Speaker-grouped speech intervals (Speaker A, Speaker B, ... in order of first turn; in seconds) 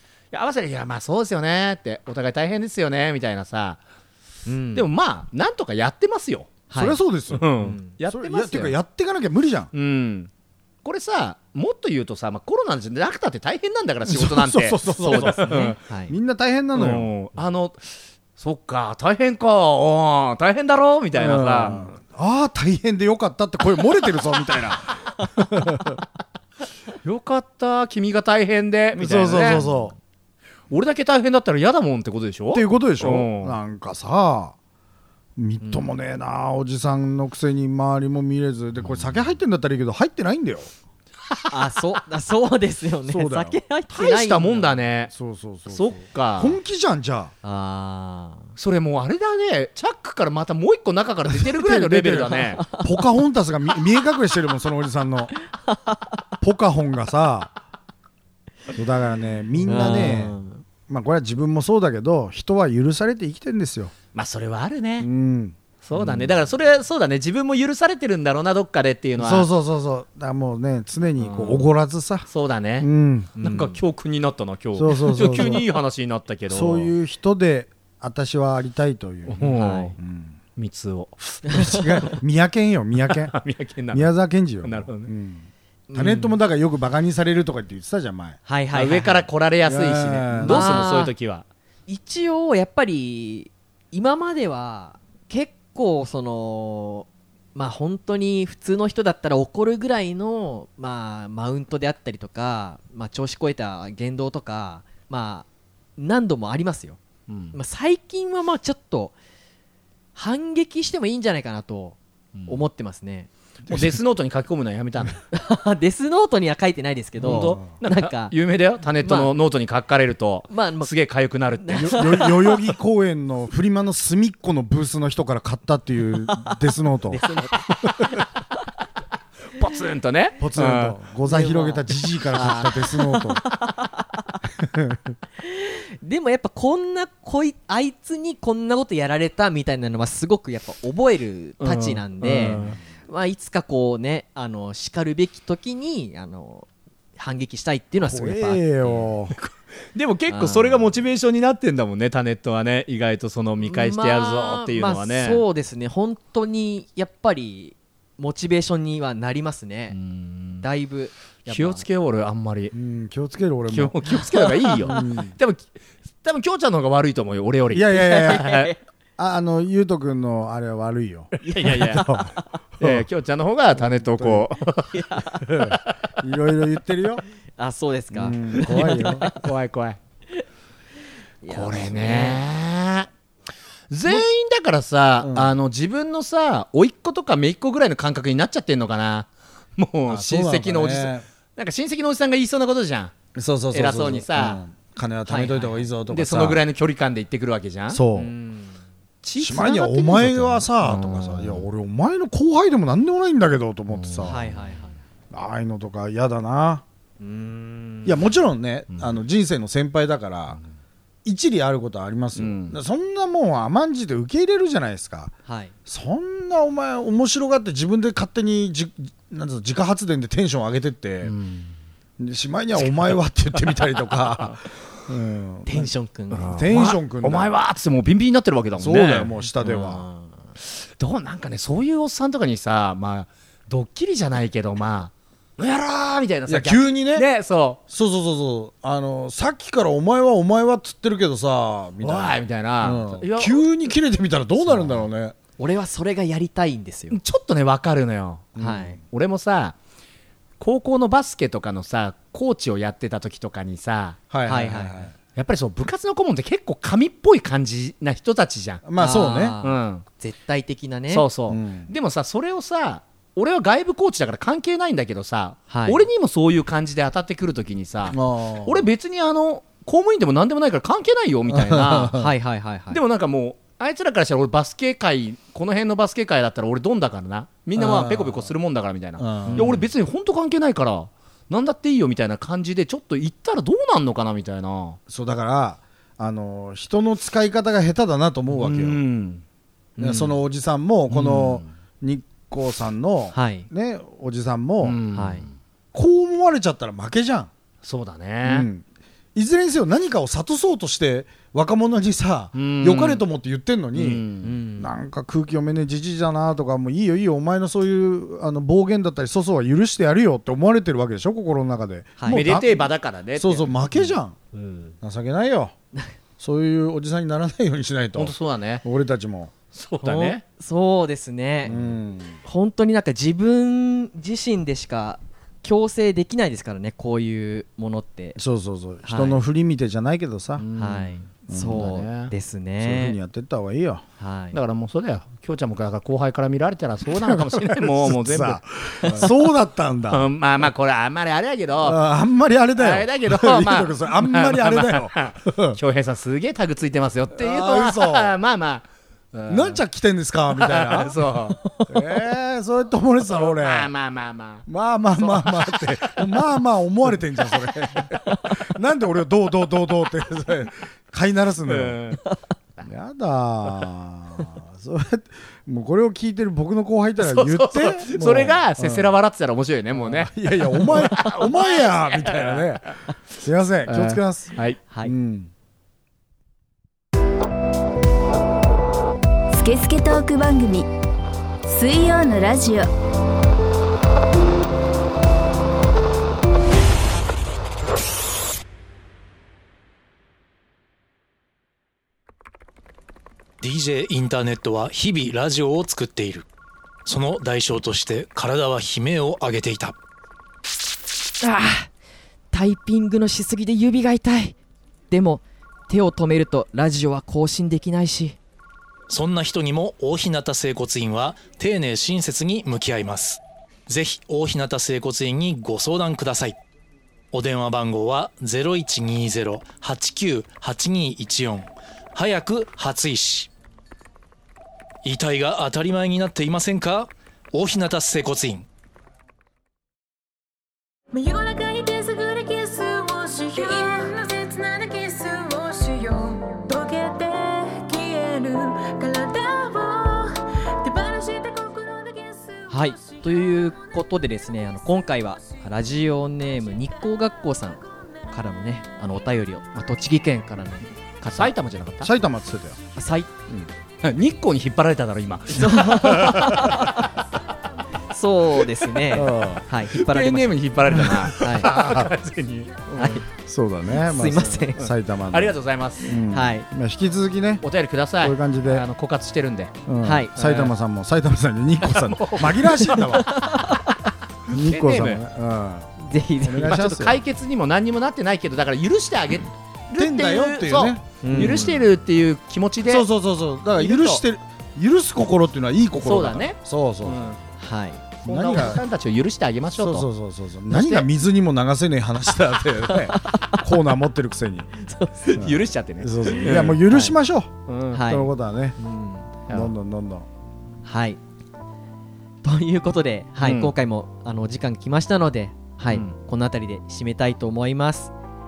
Speaker A: 0.3-3.8, 4.8-6.6, 7.3-8.8, 9.7-10.3, 10.8-15.8, 16.7-21.9, 27.0-29.6, 30.7-33.6, 43.9-45.1, 45.7-46.6, 48.6-52.6, 64.1-65.1, 65.8-69.5, 71.2-71.7, 72.3-72.9, 73.4-76.9, 79.3-80.0, 80.6-81.4, 83.1-84.1, 84.6-85.1, 88.7-91.5, 107.3-107.6, 112.3-112.6, 113.7-115.2, 117.2-122.3, 129.6-131.0, 141.6-142.8, 149.3-155.4, 159.9-160.7, 161.5-162.7, 163.7-165.7, 166.2-168.7, 171.4-172.2, 172.8-175.2, 178.6-180.0, 181.5-183.1, 183.9-193.1, 193.7-194.6, 196.1-198.0, 199.2-201.7, 203.9-204.6, 212.4-212.8, 221.2-221.7, 226.3-229.3, 230.6-237.8, 242.0-243.9, 244.6-245.1, 247.1-249.8, 250.6-254.2, 255.3-258.9, 259.6-260.1, 261.1-272.2, 272.9-285.0, 288.5-289.4, 291.1-291.7, 294.8-295.5, 297.8-298.7, 302.6-303.2, 303.9-304.6, 312.3-314.9, 318.1-318.8, 319.7-320.4, 321.7-322.0, 330.6-331.1, 331.7-332.3, 334.5-339.3, 340.1-342.0, 342.8-349.8, 350.5-351.6, 353.3-356.2, 361.7-362.2, 367.2-372.8, 373.9-374.8, 451.3-452.1, 454.0-457.1, 459.9-463.2, 464.3-466.1, 467.6-469.8, 470.4-470.7, 471.8-473.6, 474.5-475.2, 476.6-483.1, 483.8-484.2, 486.0-487.4, 488.2-490.1, 490.7-491.1, 495.2-496.9, 497.7-498.1, 499.5-499.7, 503.4-503.7, 505.9-506.1
Speaker B: 4.5-4.9, 6.7-7.0, 7.6-8.0, 15.1-16.1, 29.5-29.9, 35.6-35.9, 41.5-44.8, 47.4-48.5, 52.6-52.9, 55.7-56.1, 59.7-60.6, 73.4-73.8, 79.4-80.0, 85.9-86.4, 88.5-89.3, 90.5-91.1, 91.9-105.5, 106.0-107.0, 107.5-109.1, 110.2-113.3, 115.3-118.3, 119.0-119.3, 120.5-120.9, 121.6-122.7, 127.1-128.3, 131.3-134.3, 135.4-149.1, 150.3-150.9, 153.6-160.0, 160.6-161.8, 164.4-165.1, 168.0-168.8, 171.4-172.5, 174.9-175.7, 177.6-179.4, 181.4-182.4, 195.3-195.8, 198.1-198.8, 204.2-205.0, 207.2-208.3, 215.5-215.7, 225.7-226.8, 229.6-230.4, 245.6-247.2, 248.6-249.0, 254.5-255.1, 259.0-261.3, 265.7-266.1, 272.1-273.0, 279.5-279.8, 290.0-290.4, 293.3-293.7, 295.1-295.5, 304.4-304.9, 312.2-312.4, 320.0-321.7, 322.4-328.4, 329.1-329.4, 330.8-333.2, 334.2-334.6, 374.9-375.1, 401.4-401.9, 402.5-404.6, 405.1-408.4, 442.7-451.5, 453.0-453.3, 455.5-457.1, 458.1-460.6, 461.3-461.7, 463.0-463.2, 463.9-464.8, 466.3-466.7, 470.0-470.3, 473.0-474.1, 476.0-476.9, 481.2-481.8, 487.6-488.1, 492.9-493.7, 494.8-495.3, 496.3-497.1, 497.9-499.3, 500.8-501.2, 502.4-508.1
Speaker C: 6.7-7.5, 8.0-9.7, 14.1-17.1, 21.1-26.0, 28.9-29.9, 32.5-34.6, 35.4-40.7, 43.1-43.6, 45.1-47.3, 51.3-55.3, 56.4-57.5, 58.7-60.4, 60.9-63.9, 65.0-66.3, 69.2-72.3, 72.8-73.4, 74.8-75.7, 76.5-79.4, 80.0-80.4, 81.5-83.3, 83.9-88.4, 89.7-90.9, 113.7-114.0, 117.2-117.7, 121.8-127.2, 130.4-133.4, 134.6-135.2, 142.2-142.8, 148.0-149.3, 162.7-164.0, 164.8-165.3, 167.7-168.6, 169.2-173.1, 173.7-174.5, 175.5-177.2, 178.1-179.3, 185.2-185.5, 190.1-191.2, 193.3-196.6, 197.9-198.3, 199.4-204.4, 205.3-206.8, 208.1-210.6, 211.2-215.3, 215.9-221.3, 222.2-225.9, 226.5-227.5, 228.8-230.1, 236.5-237.3, 237.9-245.3, 248.6-249.0, 254.3-255.1, 258.9-259.6, 261.5-261.9, 268.1-268.9, 271.5-272.3, 277.8-278.5, 279.2-279.9, 285.1-289.0, 290.0-295.0, 295.9-297.5, 298.4-298.8, 299.4-304.2, 304.8-314.4, 315.0-315.7, 316.4-319.5, 321.6-322.4, 328.4-330.6, 331.5-331.8, 332.8-334.0, 337.1-340.3, 341.8-345.8, 347.4-348.4, 349.5-351.3, 351.9-353.9, 354.7-362.0, 362.8-369.1, 370.0-375.5, 452.0-452.8, 459.1-459.6, 460.9-462.1, 463.3-467.6, 468.2-468.9, 469.9-473.4, 474.5-477.2, 480.0-481.8, 482.9-487.3, 488.2-488.8, 489.8-494.7, 495.4-498.8, 499.5-500.3
Speaker D: 379.5-380.9, 381.7-382.9
Speaker E: 393.6-396.5, 397.1-400.0, 409.1-416.6, 417.3-423.5, 425.0-428.7
Speaker F: 431.1-443.6